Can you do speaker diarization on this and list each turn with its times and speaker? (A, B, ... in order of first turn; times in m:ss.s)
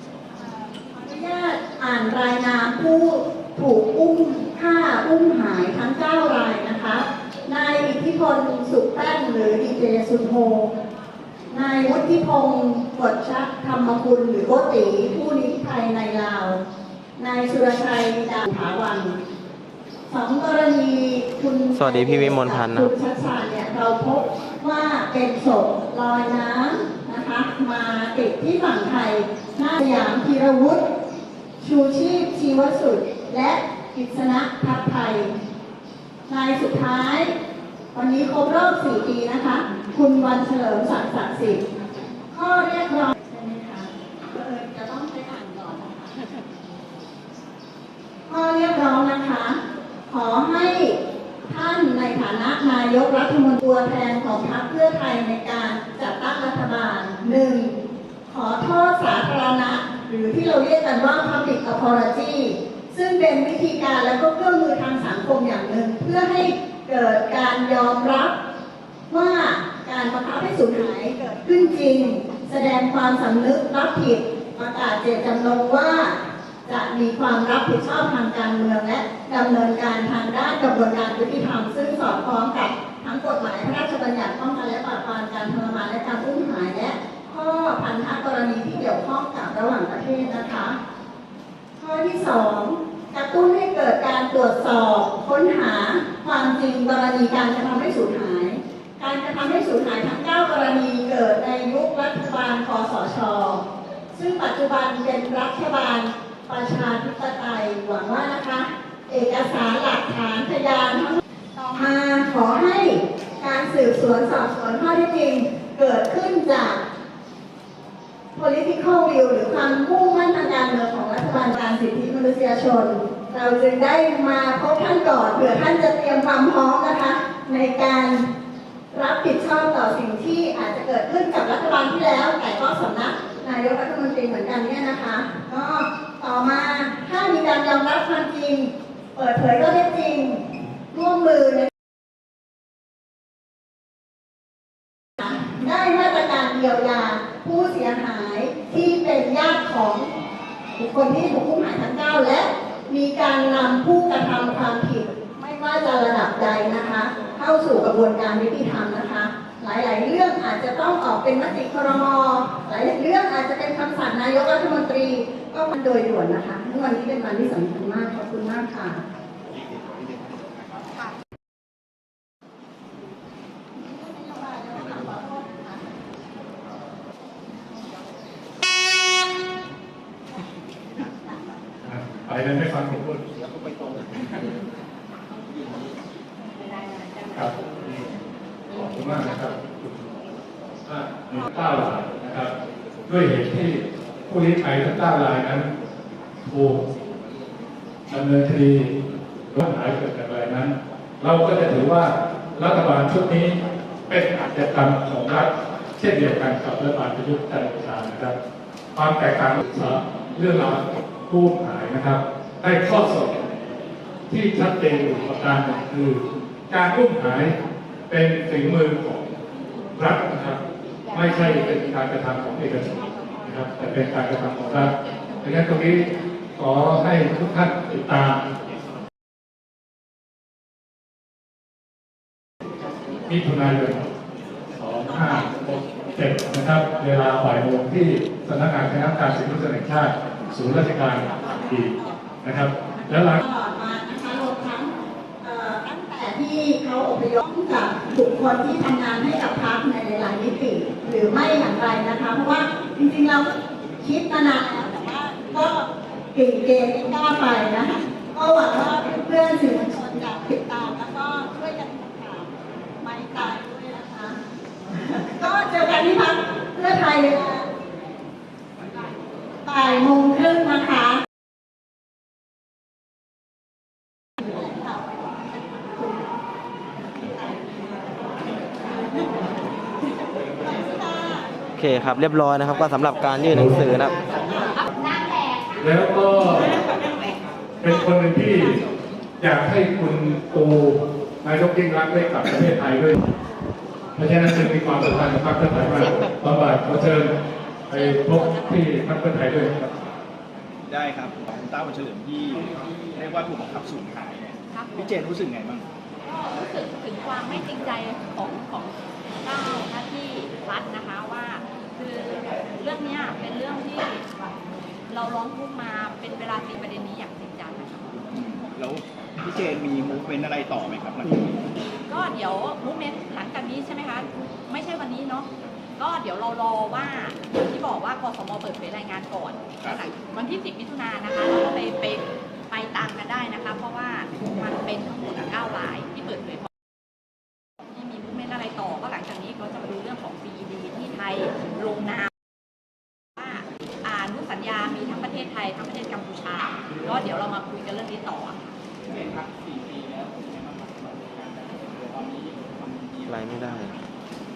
0:01.0-0:10.7 A
0:11.5-0:16.6 A
0:17.2-0:19.2 A
0:20.1-0:30.8 A
0:21.7-0:22.9 B
0:31.6-0:35.3 A
0:36.3-0:37.3 A
0:37.9-0:41.6 A
0:42.3-0:46.1 A
0:48.3-0:51.0 A
0:51.5-1:08.3 A
1:09.1-1:30.8 A
1:31.8-1:51.2 A
1:51.7-1:56.8 A
1:58.3-2:08.3 A
2:08.9-2:21.7 A
2:25.2-2:30.1 A
2:30.8-2:49.0 A
2:53.8-2:55.8 A
3:00.9-3:01.4 A
3:01.8-3:04.1 C
3:06.6-3:07.2 D
3:07.3-3:08.1 C
3:08.7-3:10.2 C
3:10.8-3:12.5 C
3:13.1-3:15.7 C
3:16.4-3:16.9 C
3:18.1-3:18.9 C
3:19.5-3:28.3 C
3:28.9-3:33.6 C
3:34.3-3:37.5 C
3:38.1-3:39.3 C
3:40.0-3:42.9 C
3:43.4-3:44.9 C
3:45.4-3:48.4 C
3:53.3-3:54.1 C
3:54.7-4:03.4 C
4:03.4-4:04.9 A
4:05.4-4:22.5 A
4:23.0-4:24.4 A
4:25.2-4:27.7 A
4:29.6-4:31.2 A
4:34.4-4:36.2 A
4:37.2-4:37.7 A
4:40.6-4:41.5 A
4:41.7-4:44.2 B
4:43.6-4:43.9 C
4:44.8-4:45.8 D
4:45.8-4:46.7 C
4:47.8-4:48.8 C
4:49.4-4:53.2 C
4:54.2-4:57.3 C
4:57.9-4:59.7 C
4:57.9-4:58.9 D
5:00.9-5:05.8 E
5:04.7-5:05.1 D
5:06.2-5:14.3 D
5:15.1-5:18.1 D
5:18.1-5:21.6 E
5:22.1-5:36.7 D
5:37.9-5:42.3 D
5:43.4-5:48.7 D
5:49.1-5:54.0 E
5:53.2-5:53.9 B